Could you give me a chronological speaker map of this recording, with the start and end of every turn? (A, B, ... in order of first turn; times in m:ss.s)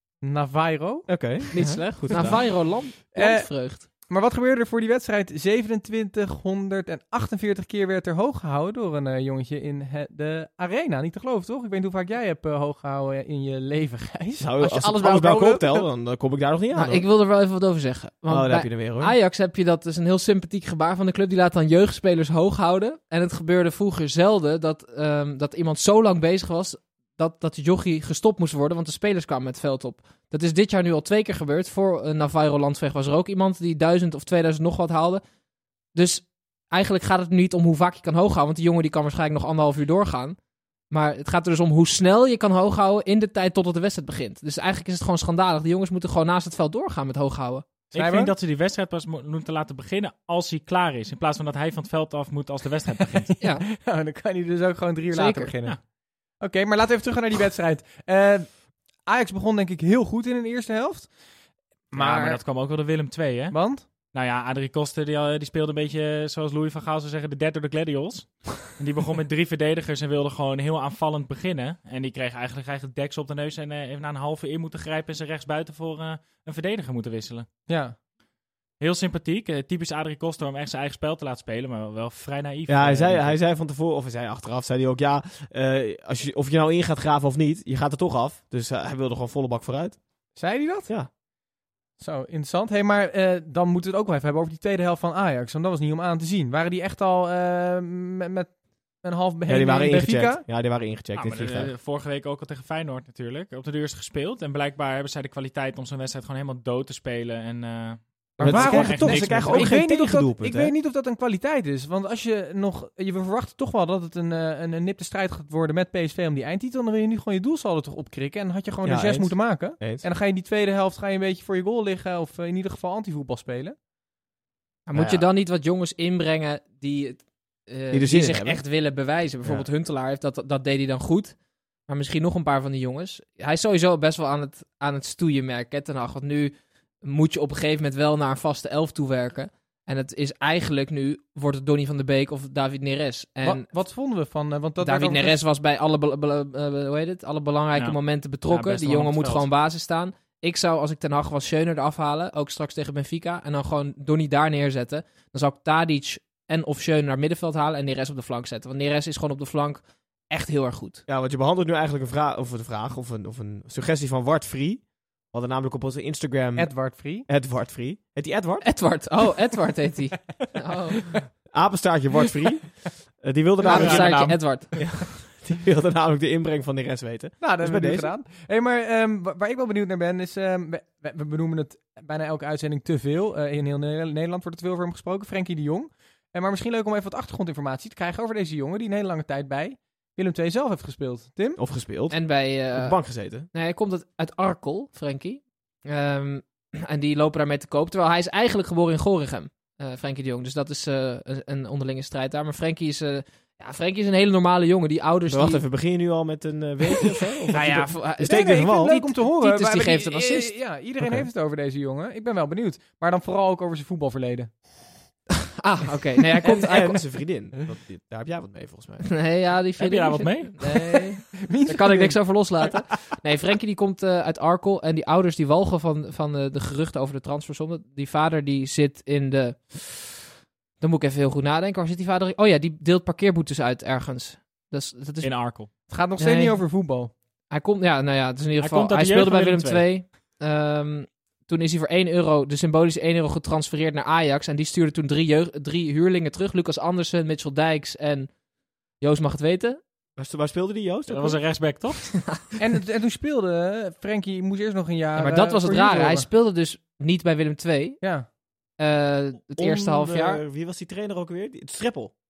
0:00.2-0:01.1 A
0:01.1-0:02.4 B
0:01.5-0:03.9 C
0:03.2-0:15.9 A
0:14.4-0:17.0 B
0:16.7-0:35.2 C
0:18.3-0:19.2 B
0:36.0-0:40.4 C
0:40.9-0:47.6 C
0:47.9-0:53.3 D
0:48.0-0:48.3 A
0:53.3-0:55.8 A
0:55.1-0:55.5 C
0:56.4-0:58.5 A
0:59.1-1:01.1 A
1:01.9-1:02.4 A
1:02.0-1:17.5 D
1:03.5-1:03.8 A
1:17.7-1:18.0 A
1:18.8-1:23.4 D
1:22.7-1:30.0 B
1:30.4-1:30.9 A
1:32.0-1:38.5 A
1:39.0-1:40.4 A
1:39.5-1:41.7 B
1:41.2-1:49.8 D
1:48.4-1:50.7 B
1:48.4-2:03.8 A
1:58.8-2:00.0 B
2:04.9-2:11.4 C
2:05.0-2:05.2 B
2:07.9-2:08.6 B
2:11.9-2:23.7 C
2:23.4-2:25.4 A
2:24.8-2:41.0 C
2:27.8-2:29.4 D
2:41.1-2:46.7 B
2:46.6-2:47.3 A
2:47.3-2:48.6 B
2:48.6-2:51.0 C
2:51.5-2:58.1 B
2:53.6-2:54.7 C
2:53.6-2:54.4 D
2:57.4-3:11.6 A
3:11.6-3:12.2 B
3:12.1-3:13.0 C
3:12.7-3:13.5 B
3:13.5-3:25.6 C
3:25.3-3:29.1 B
3:27.5-3:30.6 C
3:28.2-3:34.5 A
3:31.0-3:31.3 B
3:35.4-3:37.0 C
3:36.4-3:39.0 B
3:39.0-3:50.2 C
3:39.8-3:40.5 D
3:40.7-3:42.2 A
3:50.8-3:55.3 C
3:55.2-3:55.7 D
3:55.9-3:57.1 A
3:56.2-3:56.6 C
3:57.5-4:08.3 C
3:58.6-3:59.8 D
4:09.0-4:09.8 C
4:10.2-4:11.4 B
4:11.1-4:12.2 D
4:12.6-4:16.3 A
4:15.2-4:18.0 C
4:18.8-4:20.4 C
4:19.5-4:22.1 B